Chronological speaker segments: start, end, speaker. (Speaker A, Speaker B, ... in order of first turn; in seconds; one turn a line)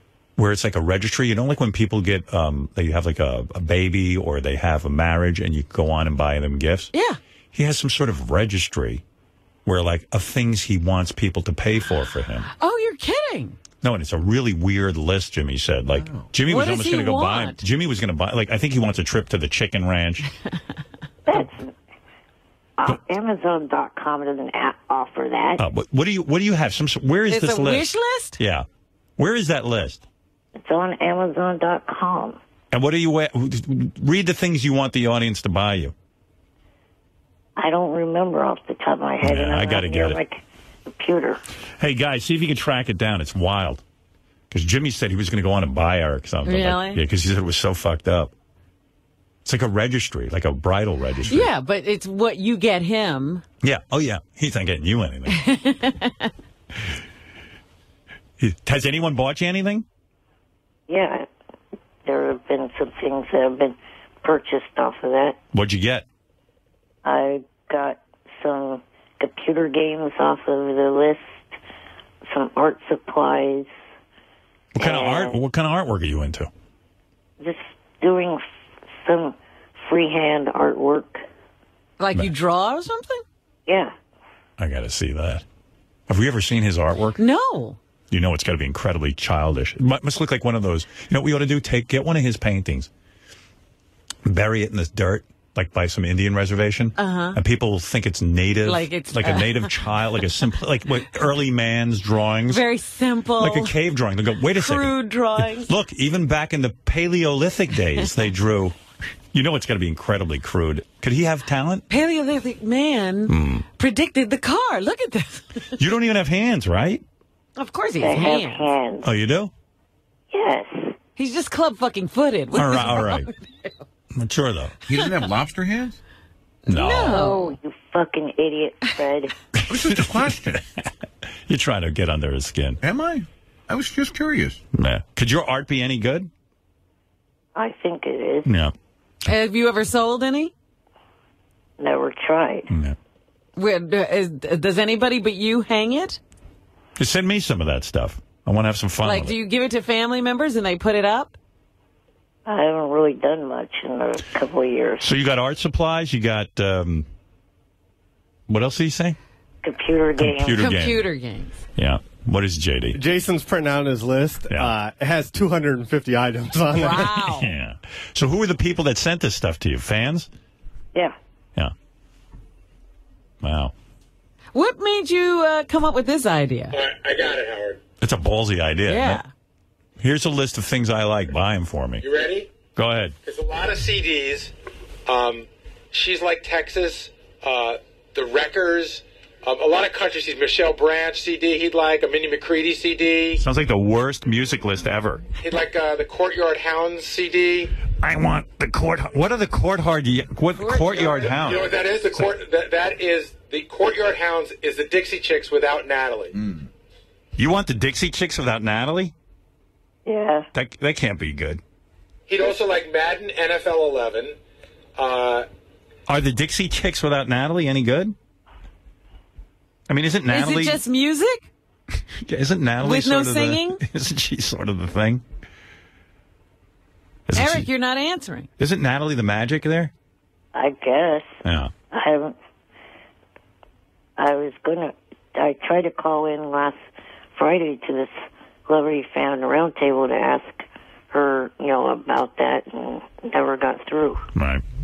Speaker A: 0.4-6.9
Speaker B: 6.9-7.2
Speaker A: 7.5-9.0
Speaker A: 9.7-12.5
Speaker B: 12.6-13.6
Speaker A: 13.8-20.3
Speaker B: 16.4-17.6
Speaker C: 21.2-21.7
Speaker C: 22.8-25.6
Speaker A: 25.6-28.6
Speaker B: 27.3-28.4
Speaker A: 29.2-30.0
Speaker C: 30.6-32.4
Speaker A: 32.7-35.9
Speaker C: 37.6-40.4
Speaker A: 39.2-40.2
Speaker C: 41.0-41.4
Speaker A: 41.8-43.8
Speaker A: 44.5-48.3
Speaker B: 46.4-47.0
Speaker A: 49.4-51.5
Speaker B: 51.3-53.4
Speaker A: 53.6-55.4
Speaker B: 55.3-56.3
Speaker A: 58.4-59.8
Speaker C: 60.9-61.2
Speaker C: 62.0-65.4
Speaker A: 65.5-66.0
Speaker C: 67.0-71.5
Speaker C: 72.3-73.7
Speaker A: 74.7-76.5
Speaker C: 74.8-75.4
Speaker C: 77.4-78.4
Speaker C: 79.0-81.2
Speaker B: 82.0-83.2
Speaker C: 83.7-83.9
Speaker A: 84.6-85.4
Speaker A: 86.1-87.2
Speaker B: 87.2-87.8
Speaker A: 88.1-92.9
Speaker A: 94.2-102.6
Speaker B: 97.0-97.4
Speaker B: 98.6-99.8
Speaker B: 102.5-103.7
Speaker A: 103.4-108.8
Speaker B: 104.5-105.7
Speaker A: 109.3-111.8
Speaker B: 111.9-115.8
Speaker A: 113.3-113.6
Speaker A: 115.8-117.0
Speaker B: 117.6-118.7
Speaker C: 118.0-119.1
Speaker A: 119.0-119.5
Speaker C: 120.3-120.9
Speaker B: 121.2-123.7
Speaker A: 122.5-123.3
Speaker A: 124.1-124.7
Speaker D: 124.8-126.0
Speaker B: 124.9-125.2
Speaker B: 126.7-127.5
Speaker A: 126.7-127.2
Speaker C: 127.0-129.3
Speaker A: 129.6-130.9
Speaker D: 129.7-130.5
Speaker A: 131.5-132.8
Speaker D: 132.8-134.6
Speaker A: 134.7-136.3
Speaker C: 137.6-138.5
Speaker A: 138.4-138.7
Speaker B: 139.3-140.5
Speaker C: 141.8-142.7
Speaker A: 142.7-142.9
Speaker B: 143.6-146.2
Speaker A: 147.0-149.3
Speaker B: 149.0-151.3
Speaker C: 152.4-155.1
Speaker A: 155.0-157.1
Speaker A: 158.5-159.2
Speaker C: 159.6-160.7
Speaker A: 160.2-161.0
Speaker B: 160.6-161.6
Speaker A: 161.8-163.0
Speaker E: 162.9-167.0
Speaker B: 166.8-167.5
Speaker A: 166.8-170.3
Speaker A: 173.4-173.7
Speaker B: 174.5-176.8
Speaker F: 176.7-177.8
Speaker A: 178.0-179.2
Speaker B: 178.9-179.3
Speaker A: 180.0-182.0
Speaker F: 182.0-182.5
Speaker A: 182.8-183.1
Speaker F: 183.2-184.5
Speaker F: 185.1-193.4
Speaker A: 193.4-195.2
Speaker F: 195.4-197.7
Speaker A: 197.9-202.3
Speaker B: 200.5-201.6
Speaker F: 201.0-206.3
Speaker A: 207.4-209.1
Speaker C: 210.1-210.5
Speaker A: 210.5-211.6
Speaker F: 212.3-214.3
Speaker F: 214.9-215.4
Speaker A: 216.1-218.1
Speaker A: 219.9-220.8
Speaker B: 220.3-221.5
Speaker A: 222.2-225.2
Speaker B: 222.8-223.8
Speaker A: 227.3-227.7
Speaker B: 227.3-228.5
Speaker A: 228.6-229.9
Speaker C: 230.5-231.4
Speaker A: 231.4-231.7
Speaker C: 231.9-232.3
Speaker C: 234.2-236.8
Speaker C: 237.3-238.1
Speaker C: 238.7-244.2
Speaker A: 244.3-244.6